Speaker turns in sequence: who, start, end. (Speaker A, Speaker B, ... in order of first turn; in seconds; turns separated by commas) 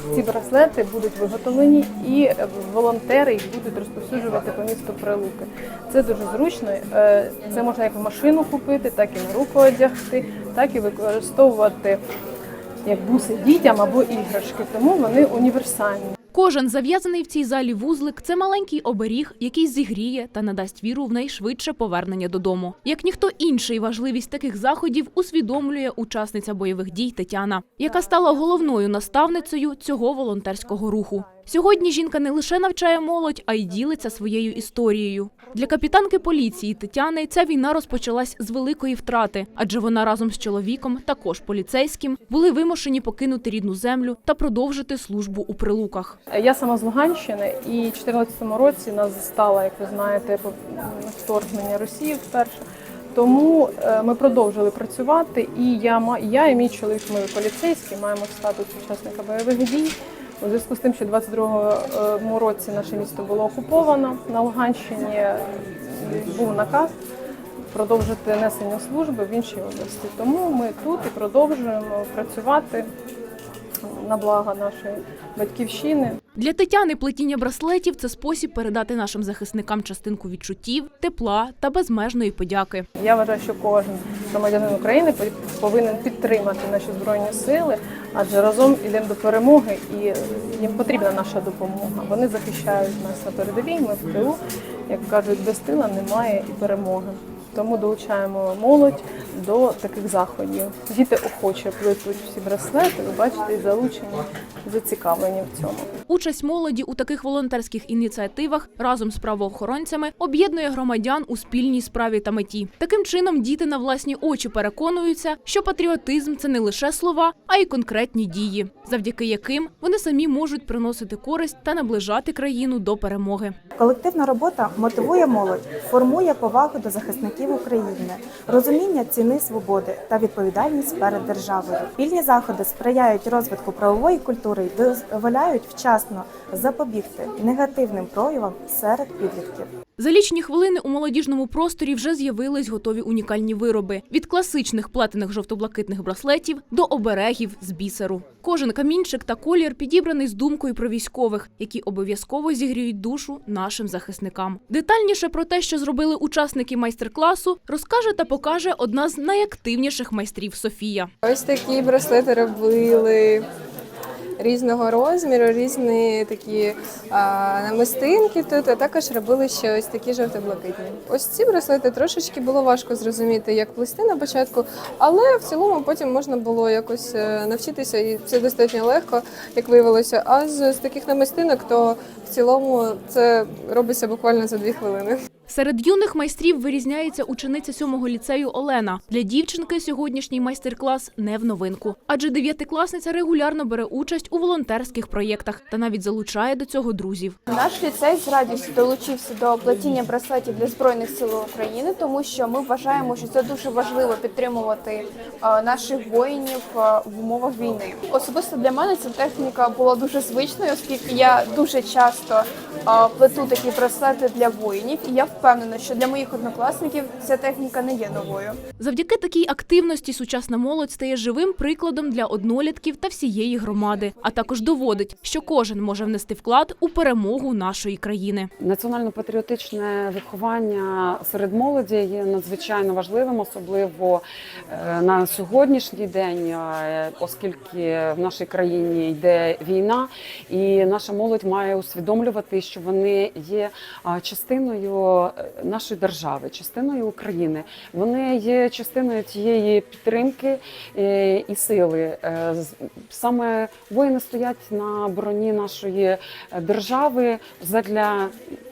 Speaker A: 0.1-12.0, Speaker A: 12.8-16.1, Speaker B: 16.3-46.2, Speaker A: 46.3-66.9, Speaker A: 67.7-72.9, Speaker A: 73.8-76.2, Speaker B: 76.3-82.8, Speaker A: 83.0-105.9, Speaker B: 106.1-123.5, Speaker C: 123.8-139.7, Speaker B: 140.0-161.1, Speaker D: 161.2-163.5, Speaker D: 164.4-185.2, Speaker B: 185.5-197.4, Speaker E: 197.5-218.6, Speaker B: 218.8-228.5, Speaker F: 228.6-258.4